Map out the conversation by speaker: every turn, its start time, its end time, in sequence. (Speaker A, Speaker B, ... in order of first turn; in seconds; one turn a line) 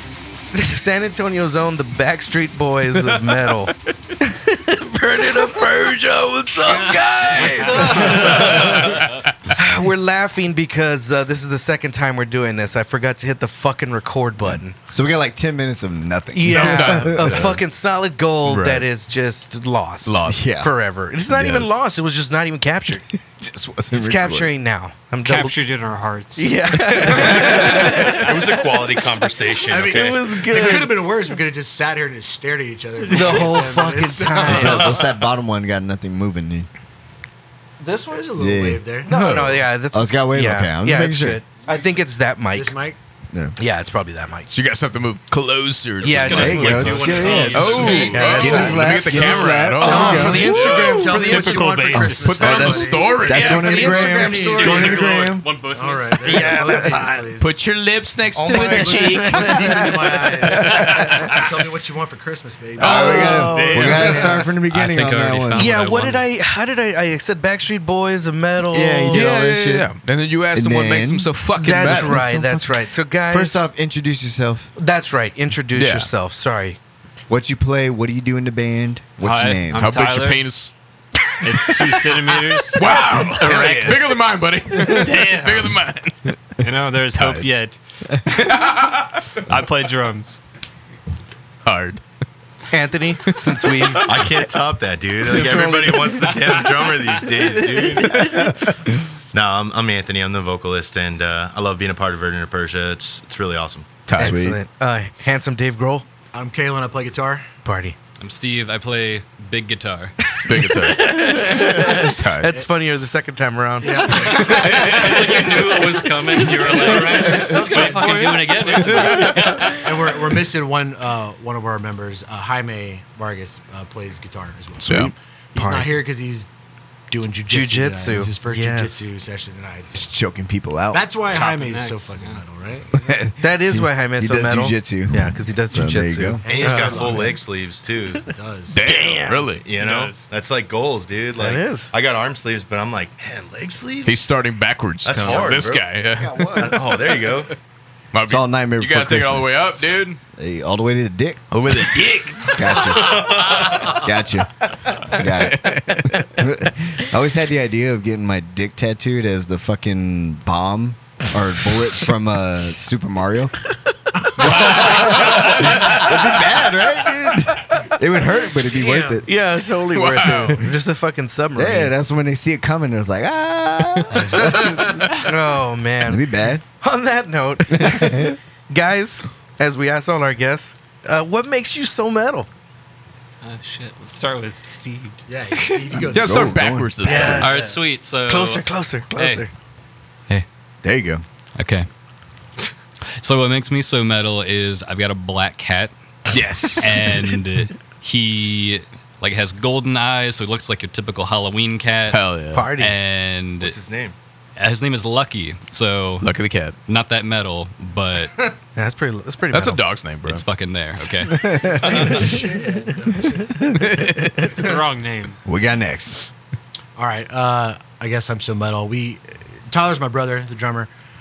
Speaker A: 0.5-14.8
Speaker B: 6.7-8.9
Speaker C: 7.3-9.0
Speaker D: 8.8-9.2
Speaker E: 14.4-17.6
Speaker A: 16.3-23.1
Speaker D: 16.5-17.6
Speaker D: 18.4-18.9
Speaker D: 20.0-20.5
Speaker E: 20.2-20.7
Speaker D: 21.3-21.7
Speaker E: 23.4-24.5
Speaker A: 23.9-25.6
Speaker C: 25.1-26.6
Speaker A: 26.3-28.8
Speaker E: 26.9-27.7
Speaker F: 27.1-30.8
Speaker B: 29.7-35.0
Speaker A: 29.7-31.1
Speaker A: 33.1-35.0
Speaker E: 34.3-36.7
Speaker B: 37.8-39.1
Speaker E: 38.4-38.8
Speaker A: 39.0-42.8
Speaker D: 39.1-39.6
Speaker E: 39.9-41.4
Speaker B: 41.6-42.0
Speaker B: 42.5-43.0
Speaker A: 43.6-44.5
Speaker D: 44.5-50.7
Speaker A: 46.0-52.0
Speaker C: 46.1-48.9
Speaker E: 46.3-50.5
Speaker F: 46.9-47.7
Speaker G: 47.4-48.1
Speaker B: 47.9-57.5
Speaker C: 50.4-52.5
Speaker E: 51.9-55.4
Speaker D: 52.1-54.1
Speaker A: 53.4-55.0
Speaker G: 54.2-57.2
Speaker A: 56.2-57.2
Speaker C: 56.2-57.1
Speaker D: 57.4-61.4
Speaker F: 58.4-59.0
Speaker A: 58.4-59.5
Speaker B: 58.5-64.5
Speaker E: 60.4-61.1
Speaker E: 62.8-65.8
Speaker A: 62.8-64.4
Speaker C: 63.0-64.4
Speaker G: 64.5-66.3
Speaker A: 65.5-69.3
Speaker E: 68.7-69.9
Speaker D: 69.1-72.2
Speaker E: 70.5-74.7
Speaker A: 71.6-73.7
Speaker A: 74.8-76.8
Speaker D: 75.7-76.1
Speaker E: 77.3-80.0
Speaker C: 79.2-80.5
Speaker D: 79.7-80.7
Speaker C: 81.4-84.2
Speaker D: 82.7-86.5
Speaker C: 84.9-85.8
Speaker C: 86.6-87.8
Speaker D: 87.1-87.5
Speaker D: 88.2-89.3
Speaker C: 89.5-90.4
Speaker D: 91.6-92.0
Speaker A: 92.7-94.1
Speaker D: 93.3-94.5
Speaker F: 94.0-98.5
Speaker D: 95.2-96.2
Speaker C: 96.3-96.8
Speaker F: 99.3-103.9
Speaker D: 104.1-104.4
Speaker E: 104.2-104.6
Speaker A: 104.2-106.0
Speaker B: 106.3-107.5
Speaker A: 107.6-108.0
Speaker G: 108.2-110.2
Speaker A: 110.3-114.3
Speaker D: 110.4-112.5
Speaker B: 113.8-118.4
Speaker G: 114.1-120.1
Speaker C: 116.9-119.6
Speaker B: 119.8-126.5
Speaker D: 124.8-125.1
Speaker A: 125.5-125.9
Speaker B: 127.1-130.0
Speaker A: 127.5-129.1
Speaker E: 129.9-131.1
Speaker B: 130.9-133.2
Speaker C: 131.3-132.4
Speaker E: 133.0-136.4
Speaker A: 133.4-137.3
Speaker B: 136.4-137.4
Speaker F: 136.4-138.3
Speaker B: 138.3-138.8
Speaker D: 138.7-139.7
Speaker A: 138.8-139.5
Speaker F: 139.6-144.2
Speaker C: 139.7-140.3
Speaker A: 141.4-141.9
Speaker D: 144.1-147.0
Speaker F: 145.0-145.9
Speaker B: 146.2-146.8
Speaker F: 146.5-147.5
Speaker D: 148.1-150.2
Speaker E: 148.2-149.8
Speaker E: 150.3-151.4
Speaker D: 151.5-152.9
Speaker E: 152.5-154.5
Speaker F: 153.0-153.9
Speaker E: 155.1-163.5
Speaker D: 155.2-156.4
Speaker E: 164.4-169.3
Speaker D: 164.4-166.1
Speaker C: 168.8-169.2
Speaker A: 169.1-171.9
Speaker D: 169.8-170.6
Speaker E: 171.6-175.3
Speaker D: 174.1-174.5
Speaker A: 175.1-176.2
Speaker E: 176.0-176.6
Speaker A: 176.8-182.5
Speaker E: 177.7-178.4
Speaker C: 183.4-185.2
Speaker B: 185.3-186.7
Speaker E: 185.9-187.5
Speaker D: 186.1-187.5
Speaker A: 187.0-189.5
Speaker G: 187.3-189.5
Speaker C: 187.4-187.8
Speaker E: 190.8-191.2
Speaker G: 191.6-191.9
Speaker G: 193.2-195.9
Speaker D: 196.3-197.2
Speaker G: 196.8-203.8
Speaker D: 202.1-202.7
Speaker A: 202.5-202.9
Speaker F: 203.6-204.1
Speaker G: 204.6-206.3
Speaker D: 206.2-206.8
Speaker G: 206.9-208.3
Speaker A: 208.8-209.8
Speaker D: 209.5-210.4
Speaker G: 210.2-211.7
Speaker E: 211.3-212.1
Speaker B: 211.5-213.6
Speaker D: 213.7-214.5
Speaker C: 214.4-215.4
Speaker E: 215.4-216.2
Speaker B: 217.0-220.9